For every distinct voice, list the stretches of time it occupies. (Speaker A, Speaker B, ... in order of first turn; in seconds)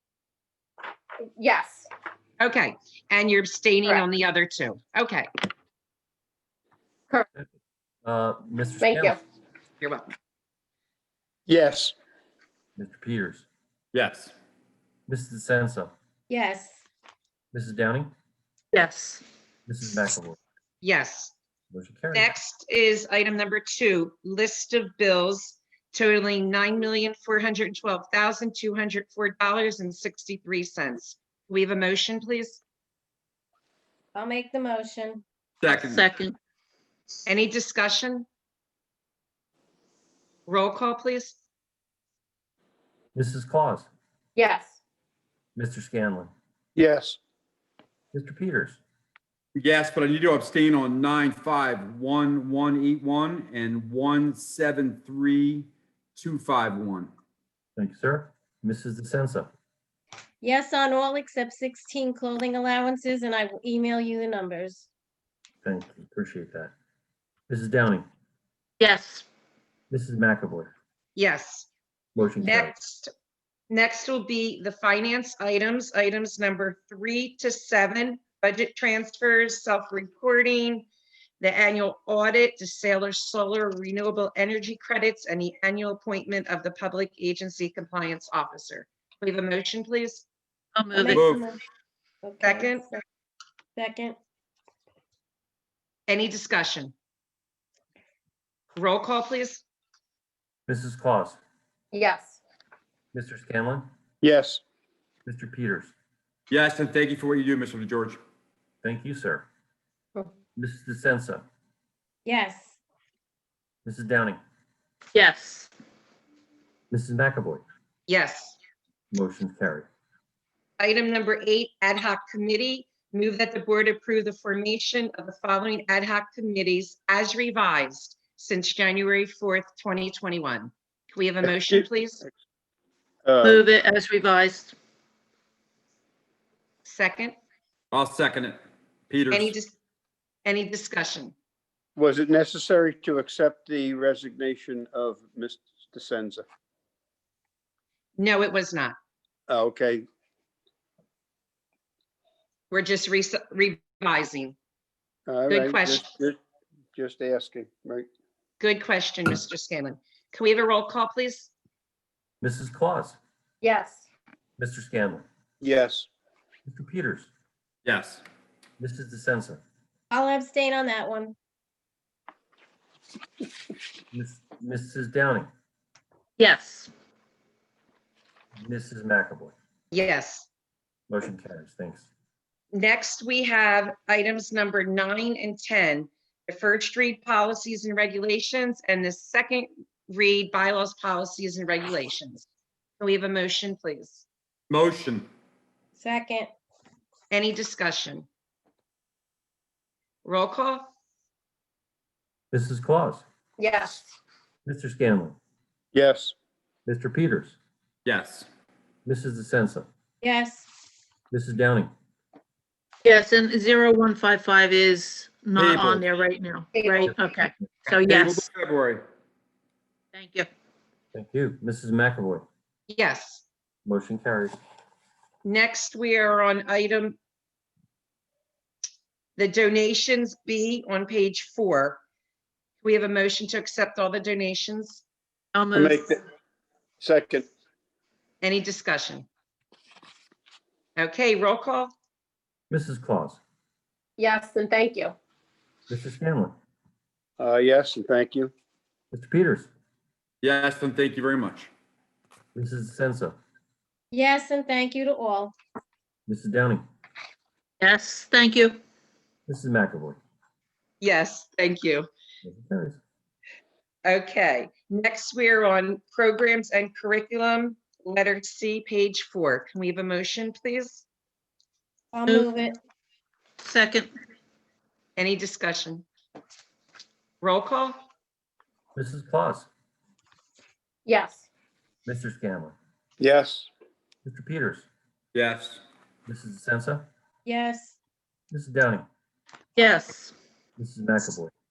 Speaker A: 1.4-1.9, 8.8-9.2, 44.4-44.8, 101.9-102.4, 163.6-164.0, 203.6-204.0, 216.7-217.2, 244.2-245.1, 281.1-281.4
Speaker B: 2.4-5.3, 9.8-10.1, 20.8-21.3, 22.1-32.6, 37.3-38.2, 40.5-41.4, 71.2-71.7, 72.4-73.1, 73.7-80.9, 81.4-90.2, 92.4-92.9, 96.1-96.9, 98.8-99.6, 118.1-118.6, 120.8-132.2, 136.8-137.3, 139.3-139.8, 140.4-141.3, 148.2-149.0, 152.7-154.5, 155.5-156.1, 158.6-161.5, 179.9-180.5, 182.7-192.4, 193.0-194.2, 197.3-198.2, 200.2-200.9, 222.9-223.4, 225.4-227.2, 229.4-232.0, 232.8-235.0, 238.4-239.3, 241.0-241.9, 261.0-262.1, 264.1-271.1, 275.2-276.1, 277.4-278.0
Speaker C: 8.0-9.2, 12.8-13.5, 15.1-15.9, 17.5-18.1, 19.7-20.4, 21.7-22.3, 43.1-43.9, 45.5-46.3, 48.1-48.8, 57.8-59.5, 65.6-66.7, 67.5-68.1, 69.9-70.7, 72.2-72.7, 100.7-101.4, 103.1-103.9, 105.3-105.9, 108.8-109.5, 110.6-111.5, 113.8-114.4, 116.9-117.6, 119.1-119.9, 162.4-163.2, 164.6-165.2, 166.7-167.3, 168.8-169.6, 174.1-175.5, 178.6-179.5, 181.1-182.1, 202.5-203.2, 204.6-205.4, 206.8-207.6, 209.1-209.9, 211.3-211.9, 217.0-217.3, 221.1-222.4, 223.8-224.6, 242.7-243.4, 245.9-246.5, 249.1-249.7, 252.6-253.4, 256.3-256.9, 259.5-260.2, 262.4-263.0, 278.9-279.7, 282.1-282.8, 284.2-284.9, 286.3-287.1, 288.5-289.1, 290.8-291.5
Speaker D: 11.5-11.9, 46.8-47.2, 104.2-104.6, 131.5-131.8, 133.2-133.6, 141.9-146.4, 149.5-150.1, 155.3-156.3, 156.9-158.1, 165.6-166.1, 205.9-206.3, 235.8-236.2, 237.0-237.5, 247.4-248.5, 283.2-283.7
Speaker E: 13.9-14.3, 35.6-36.0, 49.5-57.1, 91.1-91.5, 106.5-108.2, 137.9-139.5, 167.8-168.2, 194.7-195.3, 208.0-208.5, 215.5-216.0, 218.0-219.0, 250.4-251.7, 285.3-285.8
Speaker F: 16.3-16.8, 34.1-35.2, 60.4-64.9, 90.9-91.6, 92.2-92.9, 93.8-94.2, 112.2-112.8, 170.1-171.3, 195.9-196.5, 210.2-210.7, 254.1-255.6, 272.1-272.8, 287.4-288.0
Speaker G: 18.7-19.2, 35.7-36.3, 68.8-69.3, 90.8-91.2, 115.1-115.7, 133.4-134.7, 176.4-176.9, 213.0-218.5, 220.1-220.5, 235.5-236.0, 257.8-258.8, 273.6-274.1, 289.8-290.3